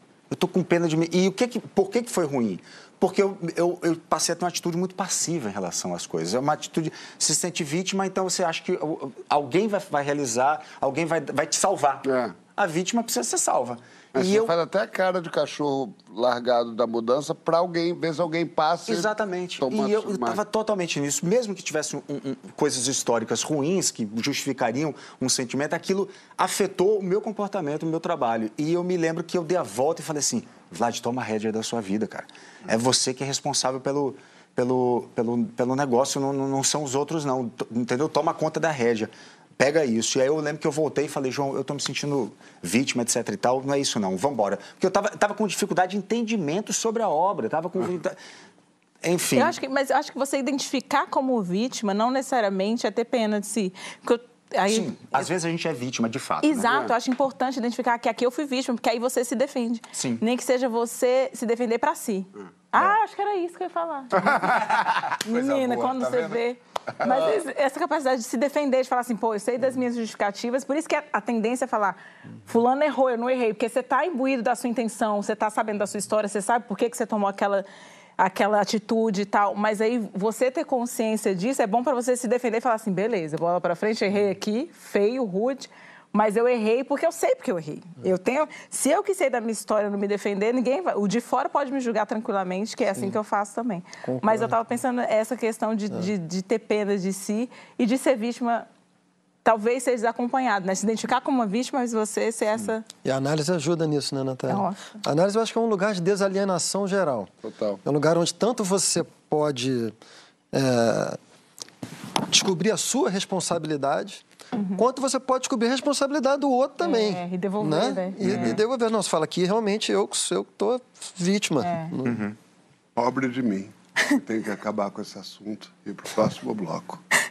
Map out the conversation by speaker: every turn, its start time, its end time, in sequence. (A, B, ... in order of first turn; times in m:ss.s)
0:00.3-0:14.5 A
0:12.0-0:12.4 B
0:14.1-0:20.4 B
0:18.9-0:48.2 A
0:49.0-0:49.5 A
0:49.3-0:55.2 C
0:54.7-0:56.9 A
0:56.4-1:04.5 C
0:59.9-1:00.2 A
1:04.4-1:06.4 A
1:05.2-1:17.6 C
1:18.2-1:38.7 C
1:34.0-1:34.5 D
1:39.4-1:42.8 C
1:43.0-1:47.3 D
1:44.5-1:45.0 C
1:47.4-1:47.8 B
1:47.8-1:50.0 D
1:50.5-1:51.2 D
1:52.3-1:54.2 D
1:54.5-1:54.8 C
1:54.8-2:02.2 D
1:56.8-1:58.6 C
1:58.2-1:58.6 A
2:01.6-2:01.9 C
2:02.0-2:02.3 A
2:03.0-2:07.0 B